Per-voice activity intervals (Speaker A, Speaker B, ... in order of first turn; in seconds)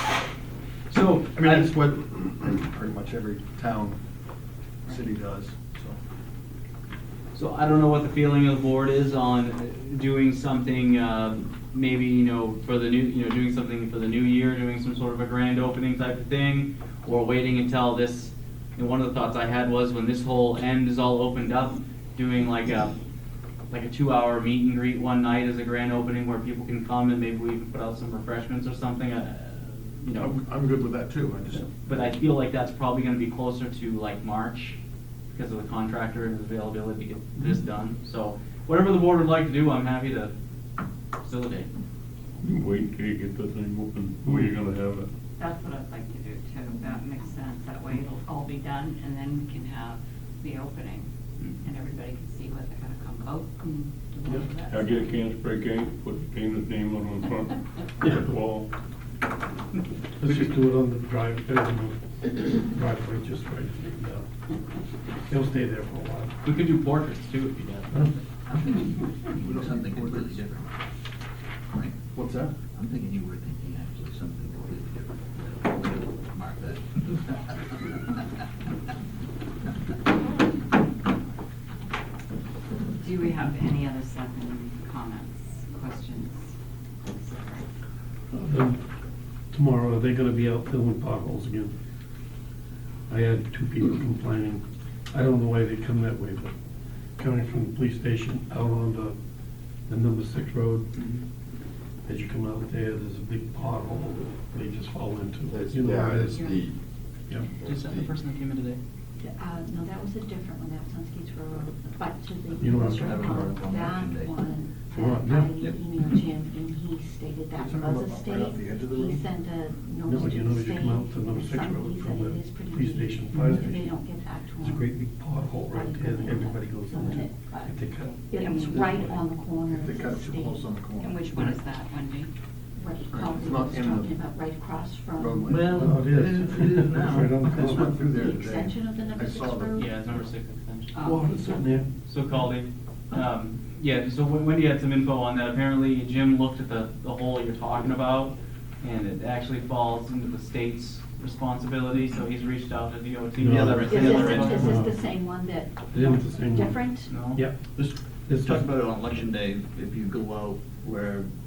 Speaker A: 0.9-1.7, 7.3-22.9, 23.7-30.4, 31.8-34.8, 35.3-40.3, 41.2-41.7, 60.2-60.5, 66.4-68.1, 100.9-101.2, 107.6-108.8, 139.8-140.9, 142.0-154.7, 157.1-157.4
Speaker B: 1.4-4.0, 4.9-6.0, 30.1-31.7, 69.4-70.5, 72.1-72.5, 105.8-106.6, 117.6-119.2, 129.7-131.2, 133.1-134.1, 135.2-136.1, 137.3-140.1
Speaker C: 42.4-45.1, 54.7-58.7
Speaker D: 45.4-51.1, 51.6-55.1, 83.0-86.5, 87.0-87.7, 128.0-128.9, 131.0-132.3, 140.9-141.7
Speaker E: 60.2-64.2, 65.2-66.3, 88.3-88.8, 89.5-91.7, 93.1-96.5, 97.2-99.2, 99.9-101.0, 102.0-106.6, 112.6-113.5, 114.9-115.5, 120.0-123.9, 124.6-129.2, 135.6-138.0, 141.0-141.9, 153.4-154.0, 154.5-155.0, 155.9-158.7
Speaker F: 68.5-70.7, 71.7-72.1, 72.7-77.8, 112.9-114.3, 135.4-137.9, 153.4-154.6, 157.7-161.3
Speaker G: 109.2-130.7, 132.8-135.7, 138.0-139.9, 153.8-157.2